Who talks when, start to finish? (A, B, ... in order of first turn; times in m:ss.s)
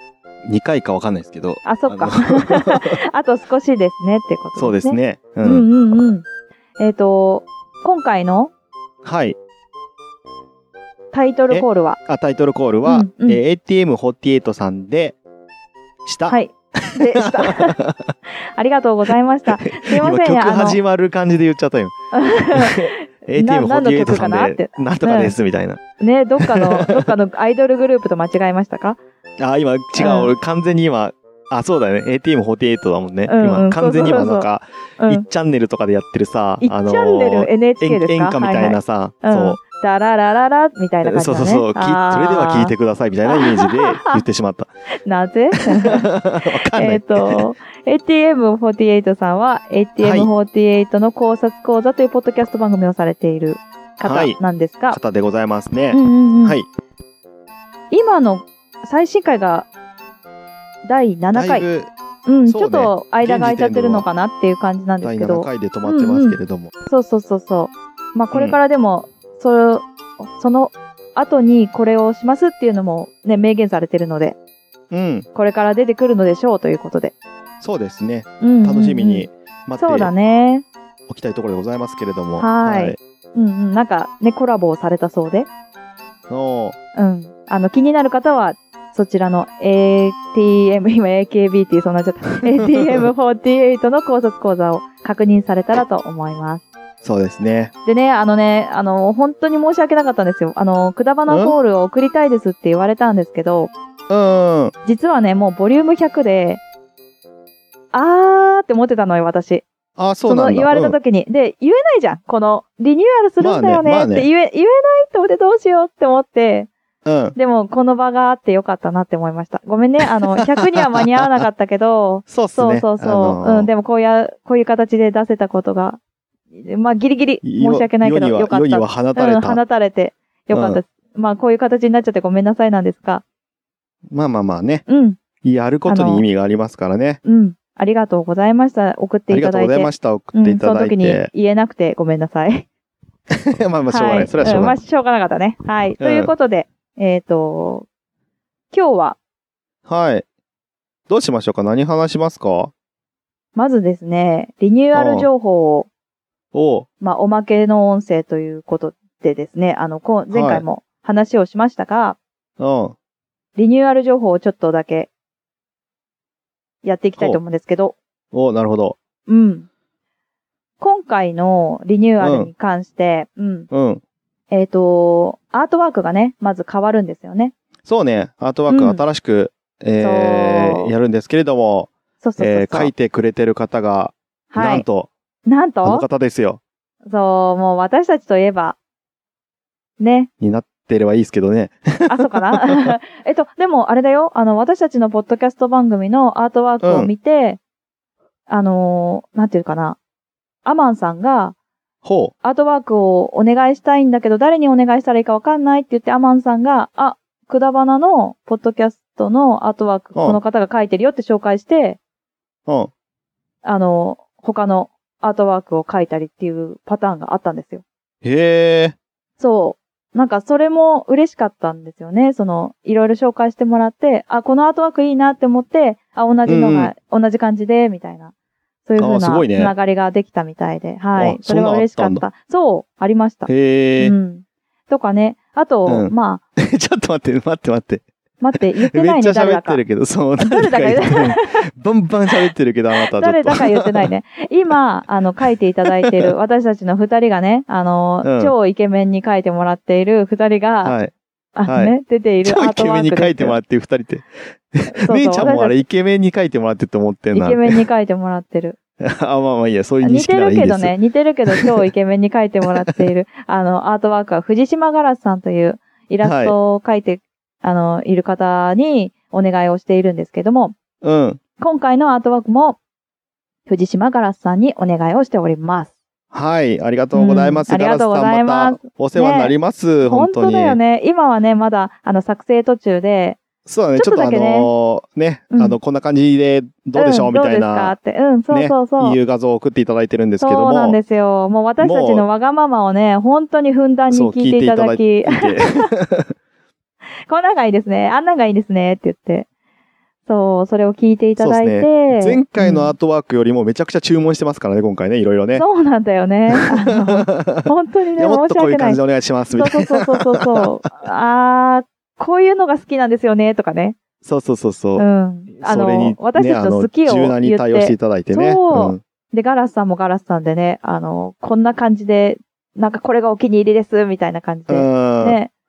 0:00.5-0:03.0 A
0:01.6-0:06.2 B
0:04.6-0:05.7 A
0:06.8-0:08.5 B
0:09.0-0:09.4 A
0:11.1-0:12.0 B
0:11.5-0:15.2 A
0:12.8-0:13.4 B
0:16.0-0:18.1 A
0:16.3-0:17.8 B
0:18.6-0:20.8 B
0:19.5-0:21.9 A
0:22.1-0:25.4 B
0:22.5-0:25.8 A
0:26.0-0:29.0 B
0:26.4-0:27.1 A
0:29.4-0:39.6 A
0:30.0-0:30.3 B
0:33.3-0:34.5 B
0:36.6-0:42.7 B
0:41.0-0:44.7 A
0:43.3-0:44.2 B
0:45.1-0:46.1 B
0:45.8-0:47.5 A
0:46.7-0:55.0 B
0:50.0-0:50.3 A
0:54.0-0:54.4 A
0:54.9-0:56.7 A
0:55.9-0:56.6 B
0:57.9-0:59.7 B
1:00.8-1:01.7 B
1:01.3-1:01.9 A
1:02.2-1:14.4 B
1:02.5-1:04.1 A
1:05.0-1:06.7 A
1:08.3-1:08.6 A
1:14.9-1:15.3 A
1:15.3-1:17.2 B
1:17.6-1:20.1 A
1:18.4-1:19.3 B
1:19.8-1:20.7 B
1:21.1-1:23.0 A
1:22.4-1:25.5 B
1:26.3-1:26.8 A
1:27.0-1:36.7 B
1:32.6-1:33.1 A
1:37.0-1:37.7 A
1:37.8-1:43.7 B
1:41.3-1:41.6 A
1:44.1-1:44.7 A
1:44.8-1:46.6 B
1:47.9-1:49.7 B
1:50.0-1:51.0 A
1:50.2-1:56.7 B
1:53.4-1:54.3 A
1:57.0-1:57.4 A
1:57.4-2:06.0 B
2:02.3-2:03.7 A
2:06.5-2:13.2 B
2:07.4-2:09.6 A
2:10.5-2:10.8 A
2:14.1-2:14.9 A
2:14.9-2:15.2 B
2:15.4-2:17.2 A
2:15.9-2:16.2 B
2:17.2-2:22.7 B
2:19.3-2:21.3 A
2:23.5-2:24.8 A
2:23.9-2:27.9 B
2:26.0-2:26.3 A
2:28.7-2:29.2 B
2:29.9-2:30.2 A
2:31.1-2:32.7 A
2:33.6-2:35.9 B
2:34.9-2:35.3 A
2:36.5-2:36.9 A
2:37.0-2:42.2 B
2:40.3-2:40.6 A
2:42.6-2:42.9 A
2:43.6-2:45.1 B
2:46.8-2:48.0 B
2:47.2-2:47.4 A
2:48.3-2:49.0 A
2:49.3-2:49.7 B
2:50.8-2:53.7 B
2:52.2-2:52.5 A
2:53.7-2:54.0 A
2:54.5-2:57.5 B
2:57.8-3:05.1 A
2:58.7-2:59.0 B
3:00.0-3:00.9 B
3:02.2-3:02.9 B
3:04.5-3:04.9 B
3:05.4-3:06.1 B
3:05.8-3:06.6 A
3:07.1-3:08.8 B
3:10.0-3:10.3 B
3:10.4-3:12.5 A
3:12.1-3:17.6 B
3:16.8-3:17.1 A
3:18.5-3:20.0 B
3:20.6-3:21.6 B
3:22.0-3:22.3 A
3:22.4-3:32.0 B
3:33.6-3:37.8 B
3:38.2-3:39.0 A
3:39.4-3:48.3 B
3:46.4-3:46.9 A
3:48.9-3:56.4 B
3:49.0-3:49.7 A
3:51.2-3:52.2 A
3:53.5-3:54.1 A
3:55.9-3:58.1 A
3:58.4-3:59.8 B
3:58.6-4:04.1 A
4:00.4-4:01.5 B
4:03.0-4:11.0 B
4:06.0-4:06.3 A
4:08.2-4:08.5 A
4:10.8-4:11.1 A
4:11.6-4:13.6 B
4:11.7-4:17.8 A
4:15.0-4:15.8 B
4:17.3-4:18.8 B
4:19.0-4:20.9 A
4:20.0-4:30.8 B
4:26.2-4:26.6 A
4:31.0-4:31.4 A
4:31.6-4:32.8 B
4:33.7-4:35.9 B
4:36.3-4:40.8 A
4:37.1-4:43.4 B
4:43.6-4:48.0 A
4:43.9-4:44.7 B
4:45.5-4:45.8 B
4:46.9-4:49.2 B
4:48.5-4:51.0 A
4:50.4-4:55.9 B
4:51.8-4:52.2 A
4:54.1-4:56.3 A
4:57.3-4:59.5 B
5:00.2-5:02.9 B
5:01.4-5:05.7 A
5:05.6-5:14.0 B
5:06.5-5:10.7 A
5:14.2-5:19.0 A
5:15.0-5:25.5 B
5:24.7-5:25.4 A